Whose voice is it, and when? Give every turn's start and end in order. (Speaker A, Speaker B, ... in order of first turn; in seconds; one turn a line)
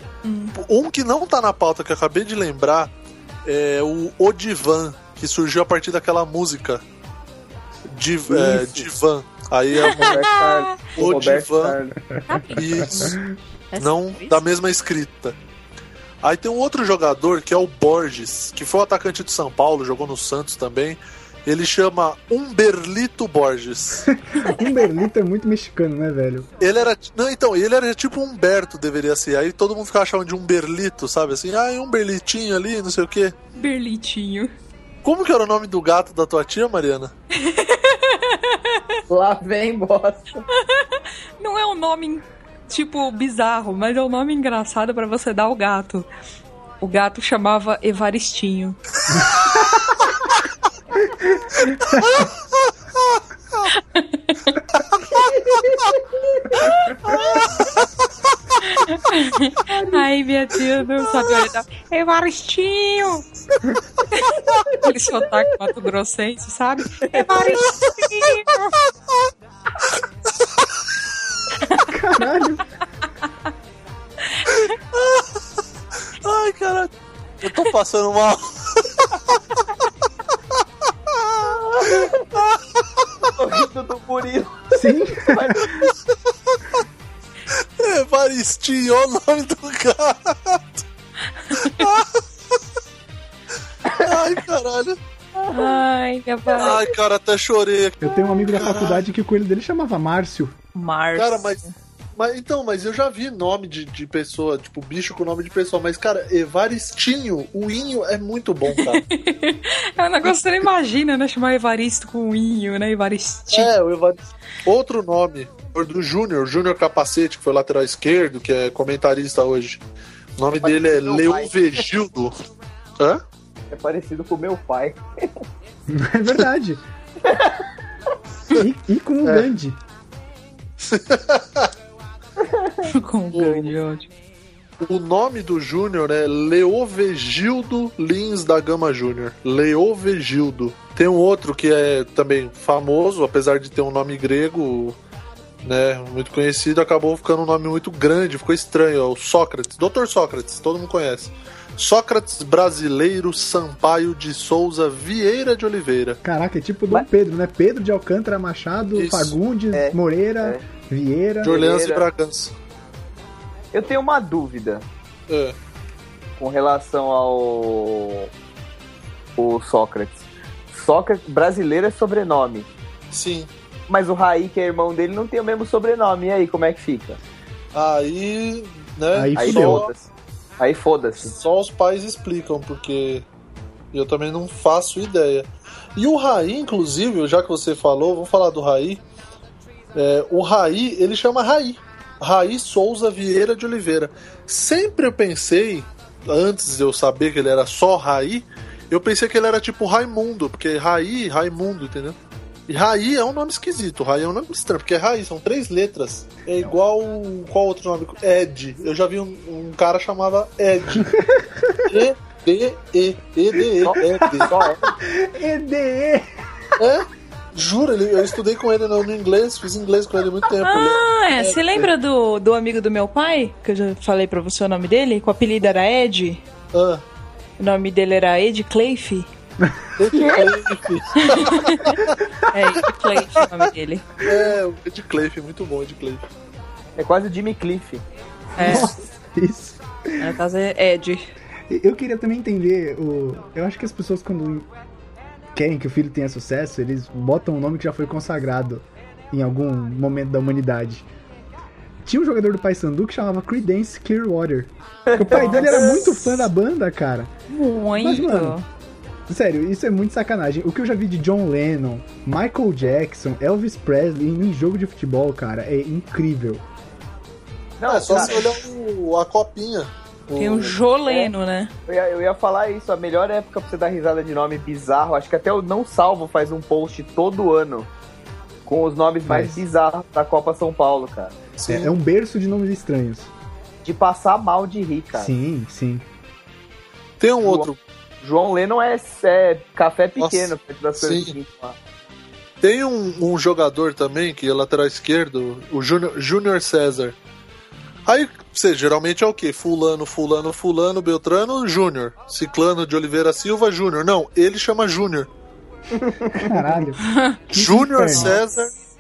Speaker A: 0.2-0.6
Speaker B: 0.6-2.9
Speaker B: 3.5-6.8
Speaker B: 7.9-10.3
Speaker C: 8.3-8.9
Speaker A: 9.8-10.8
Speaker C: 9.9-12.0
Speaker B: 10.9-11.8
Speaker A: 12.3-13.2
Speaker B: 12.5-13.2
Speaker D: 12.9-13.3
Speaker A: 13.7-14.4
Speaker B: 13.8-15.4
Speaker B: 16.2-24.1
Speaker D: 24.1-26.5
Speaker B: 26.6-33.4
Speaker A: 33.6-34.5
Speaker B: 35.0-37.1
Speaker A: 37.3-39.0
Speaker C: 39.1-40.4
Speaker A: 40.5-46.1
Speaker A: 46.8-48.8
Speaker D: 49.1-50.0
Speaker D: 51.1-52.2
Speaker A: 53.7-54.6
Speaker C: 55.0-56.6
Speaker B: 57.0-57.8
Speaker A: 58.6-63.2
Speaker A: 64.1-68.8
Speaker C: 64.5-64.8
Speaker C: 67.0-67.6
Speaker A: 71.6-71.9
Speaker D: 71.9-72.7
Speaker A: 74.3-74.7
Speaker B: 74.9-75.2
Speaker B: 76.2-79.4
Speaker C: 81.4-82.3
Speaker B: 82.5-83.1
Speaker C: 83.3-85.9
Speaker D: 84.7-85.8
Speaker B: 87.5-90.8
Speaker A: 91.4-91.8
Speaker B: 91.6-92.6
Speaker C: 93.9-94.1
Speaker B: 94.0-95.0
Speaker C: 95.4-95.8
Speaker A: 95.5-96.8
Speaker B: 96.6-99.0
Speaker D: 98.0-100.5
Speaker A: 100.8-101.7
Speaker B: 101.2-101.6
Speaker B: 102.2-109.0
Speaker A: 108.7-113.7
Speaker B: 113.5-119.8
Speaker B: 120.4-122.3
Speaker C: 120.6-121.5
Speaker C: 123.7-125.3
Speaker D: 125.9-126.8
Speaker C: 127.2-127.7
Speaker D: 128.6-129.8
Speaker B: 130.8-131.7
Speaker C: 132.4-132.9
Speaker A: 132.9-134.1
Speaker B: 133.3-133.7
Speaker B: 134.8-145.0
Speaker B: 145.6-156.2
Speaker D: 156.2-161.6
Speaker B: 158.9-159.4
Speaker C: 159.7-160.6
Speaker B: 161.4-162.6
Speaker C: 161.4-162.0
Speaker C: 163.7-164.9
Speaker B: 165.3-165.6
Speaker C: 166.4-168.3
Speaker C: 169.4-172.7
Speaker B: 173.1-173.5
Speaker C: 173.9-177.2
Speaker B: 177.7-179.9
Speaker D: 179.1-179.9
Speaker C: 179.4-181.4
Speaker B: 181.2-183.3
Speaker B: 183.9-189.0
Speaker B: 189.9-202.2
Speaker B: 202.7-211.1
Speaker D: 210.9-212.0
Speaker B: 211.9-214.5
Speaker C: 213.8-214.9
Speaker D: 214.0-216.3
Speaker B: 216.8-221.9
Speaker A: 220.6-226.4
Speaker B: 226.7-227.0
Speaker A: 227.6-229.3
Speaker B: 230.0-232.2
Speaker C: 230.1-230.6
Speaker A: 231.2-234.1
Speaker B: 234.2-236.2
Speaker C: 237.0-238.1
Speaker A: 238.6-238.9
Speaker D: 238.6-240.3
Speaker A: 240.2-241.3
Speaker D: 241.7-244.7
Speaker D: 245.6-251.1
Speaker D: 252.1-257.3
Speaker C: 255.1-255.9
Speaker A: 255.3-255.7
Speaker A: 257.5-258.6
Speaker D: 258.0-258.6
Speaker D: 259.3-266.6
Speaker C: 267.8-268.6
Speaker B: 267.9-270.8
Speaker A: 270.4-271.7
Speaker C: 271.1-271.3
Speaker C: 271.9-277.9
Speaker C: 278.7-281.4
Speaker D: 279.3-279.6
Speaker B: 281.6-281.9
Speaker D: 281.7-283.3
Speaker C: 283.8-285.3
Speaker D: 285.1-286.1
Speaker B: 287.2-287.8
Speaker C: 287.4-287.7
Speaker C: 288.2-291.8
Speaker B: 290.2-291.3
Speaker B: 292.6-297.2
Speaker B: 298.1-305.3
Speaker C: 305.9-306.8
Speaker D: 306.3-308.4
Speaker A: 307.0-307.4
Speaker B: 307.6-308.7